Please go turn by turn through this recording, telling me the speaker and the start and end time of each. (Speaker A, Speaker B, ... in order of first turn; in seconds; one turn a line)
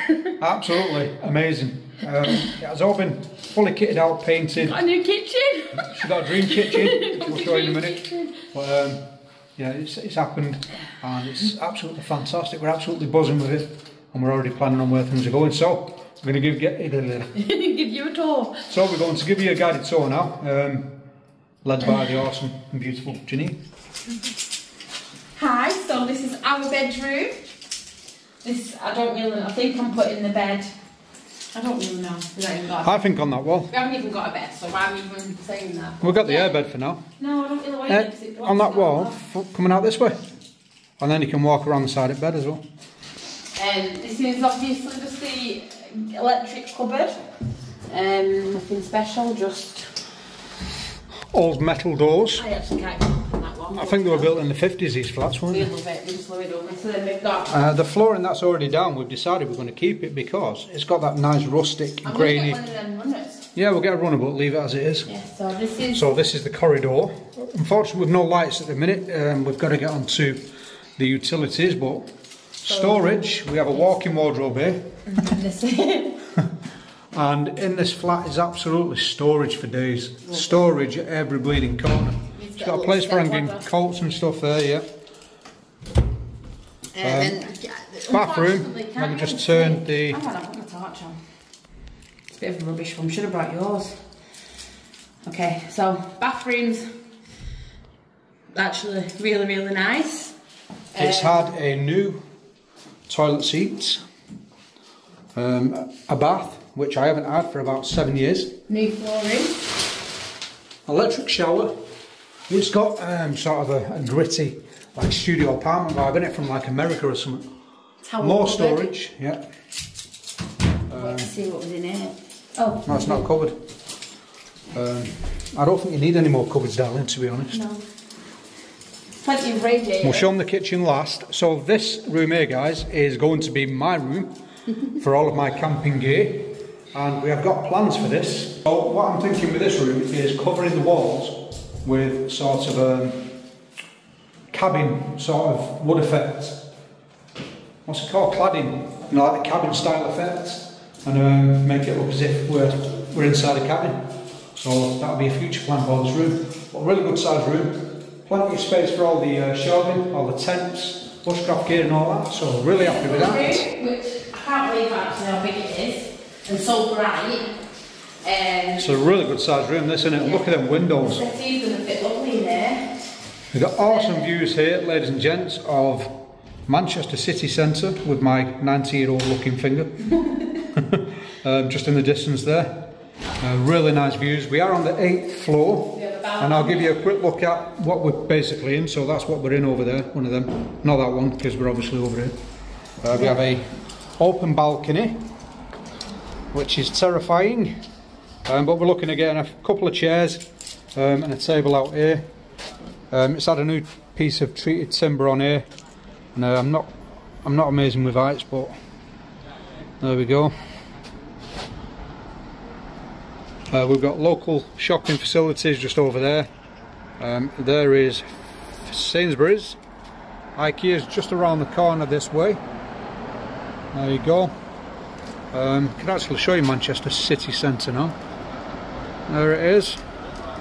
Speaker A: 0.2-4.8
Speaker B: 4.6-8.3
Speaker A: 5.8-9.0
Speaker A: 9.6-17.4
Speaker B: 17.4-18.7
Speaker A: 18.7-21.0
Speaker A: 21.6-23.6
Speaker B: 25.4-27.4
Speaker B: 28.4-30.7
Speaker B: 31.5-33.0
Speaker A: 32.8-33.7
Speaker B: 33.7-36.5
Speaker A: 36.0-37.0
Speaker B: 37.2-39.2
Speaker A: 37.9-40.2
Speaker A: 41.0-42.6
Speaker B: 43.6-47.2
Speaker B: 47.9-49.9
Speaker A: 51.3-52.5
Speaker B: 52.4-54.3
Speaker A: 53.7-55.7
Speaker B: 55.5-57.6
Speaker A: 57.5-62.6
Speaker B: 62.0-63.5
Speaker A: 63.5-65.1
Speaker B: 65.1-66.1
Speaker A: 65.9-70.5
Speaker A: 71.0-72.1
Speaker A: 72.6-75.3
Speaker B: 72.7-73.2
Speaker B: 75.1-76.2
Speaker A: 77.1-84.9
Speaker B: 80.3-80.6
Speaker B: 82.4-83.7
Speaker B: 86.9-91.2
Speaker A: 87.0-87.5
Speaker A: 88.1-90.2
Speaker B: 92.3-94.0
Speaker B: 95.2-97.0
Speaker B: 98.5-100.3
Speaker B: 100.9-101.5
Speaker A: 101.0-102.2
Speaker A: 103.1-104.0
Speaker A: 105.3-108.5
Speaker B: 108.7-109.7
Speaker A: 110.9-111.7
Speaker A: 112.5-117.5
Speaker B: 118.0-118.9
Speaker A: 118.2-119.4
Speaker A: 120.9-121.3
Speaker B: 121.0-123.3
Speaker A: 122.8-123.6
Speaker A: 124.7-127.6
Speaker B: 127.5-127.8
Speaker B: 129.2-130.3
Speaker A: 130.0-134.3
Speaker A: 134.9-143.4
Speaker A: 144.5-146.6
Speaker A: 147.8-163.7
Speaker B: 162.8-167.5
Speaker B: 168.2-169.1
Speaker A: 168.8-171.2
Speaker B: 170.2-173.0
Speaker A: 173.5-176.1
Speaker B: 173.8-174.3
Speaker A: 176.7-180.2
Speaker A: 180.7-192.4
Speaker B: 185.9-187.0
Speaker A: 193.0-195.2
Speaker A: 196.5-197.8
Speaker A: 198.5-200.4
Speaker A: 201.0-202.2
Speaker A: 203.1-205.7
Speaker A: 206.3-206.9
Speaker A: 207.4-208.7
Speaker A: 210.0-210.5
Speaker A: 213.7-216.5
Speaker A: 217.2-219.8
Speaker A: 220.6-222.6
Speaker A: 223.9-224.5
Speaker A: 225.5-228.2
Speaker A: 229.3-230.0